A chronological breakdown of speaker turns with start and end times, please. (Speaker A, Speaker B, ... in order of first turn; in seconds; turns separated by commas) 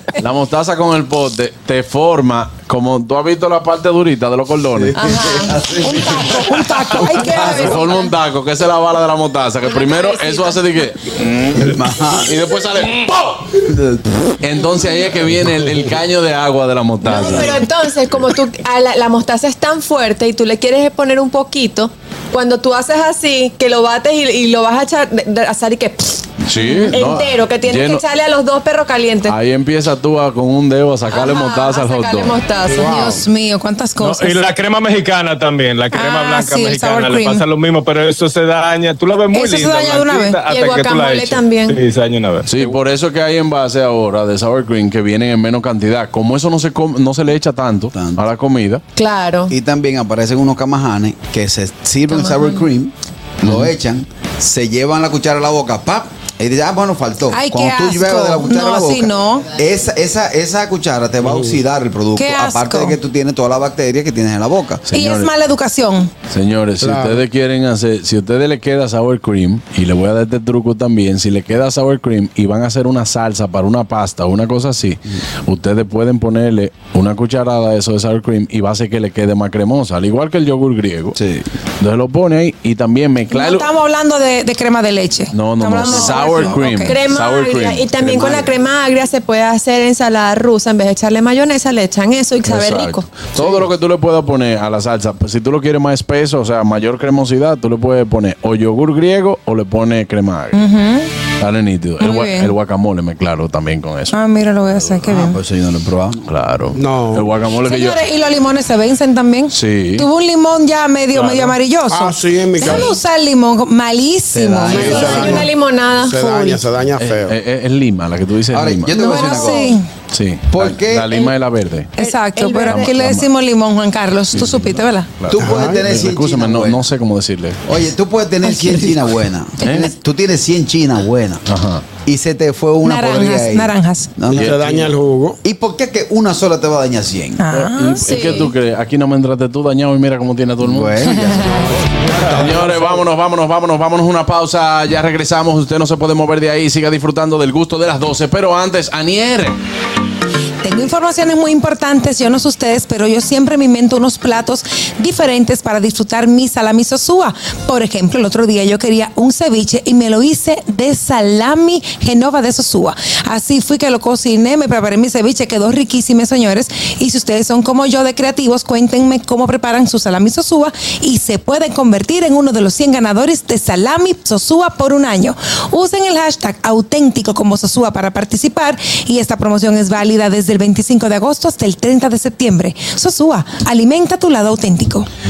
Speaker A: 0.2-5.1, Speaker B: 4.8-7.4, Speaker C: 4.9-5.5, Speaker D: 5.8-8.0, Speaker A: 7.1-13.4, Speaker C: 9.7-10.6, Speaker B: 11.6-12.3, Speaker A: 14.4-17.6, Speaker C: 17.0-26.2, Speaker A: 26.4-28.0, Speaker D: 26.5-27.1, Speaker C: 26.9-29.4, Speaker A: 29.2-32.4, Speaker C: 31.1-33.1, Speaker E: 32.8-33.2, Speaker D: 32.8-34.4, Speaker F: 34.0-42.5, Speaker D: 35.9-37.4, Speaker D: 39.3-40.4, Speaker C: 40.5-41.8, Speaker A: 42.5-48.8, Speaker B: 47.9-48.2, Speaker C: 49.0-49.5, Speaker B: 49.5-64.8, Speaker A: 53.4-53.7, Speaker D: 57.3-59.5, Speaker E: 61.2-61.5, Speaker D: 62.1-63.0, Speaker A: 64.9-65.3, Speaker D: 64.9-66.1, Speaker A: 66.3-81.2, Speaker E: 66.8-67.2, Speaker B: 81.2-81.5, Speaker A: 81.8-83.7, Speaker D: 83.3-87.0, Speaker A: 85.3-88.4, Speaker C: 85.9-93.0, Speaker A: 92.4-100.6, Speaker D: 100.5-101.1, Speaker A: 101.4-104.2, Speaker D: 102.0-102.5, Speaker D: 104.1-105.4, Speaker A: 104.7-105.0, Speaker B: 105.1-106.2, Speaker A: 106.3-108.0, Speaker E: 106.8-107.3, Speaker D: 107.6-115.5, Speaker A: 109.5-110.1, Speaker E: 111.9-113.0, Speaker B: 114.3-115.4, Speaker E: 114.7-117.3, Speaker C: 114.8-116.6, Speaker A: 117.0-119.0, Speaker B: 118.5-119.8, Speaker D: 118.9-119.9, Speaker A: 120.1-121.9, Speaker B: 120.5-121.3, Speaker D: 122.0-125.1, Speaker C: 122.0-122.9, Speaker A: 122.6-123.3, Speaker A: 124.3-127.6, Speaker B: 125.3-126.8, Speaker E: 125.4-125.8, Speaker B: 127.7-131.4, Speaker D: 128.4-129.0, Speaker A: 129.6-129.9, Speaker A: 131.5-131.8, Speaker B: 132.0-134.6, Speaker D: 132.8-134.2, Speaker E: 134.3-135.4, Speaker A: 134.3-134.9, Speaker B: 135.4-137.4, Speaker D: 137.4-138.5, Speaker A: 137.5-141.1, Speaker B: 140.6-141.7, Speaker E: 141.5-143.0, Speaker A: 142.3-149.6, Speaker D: 150.6-185.1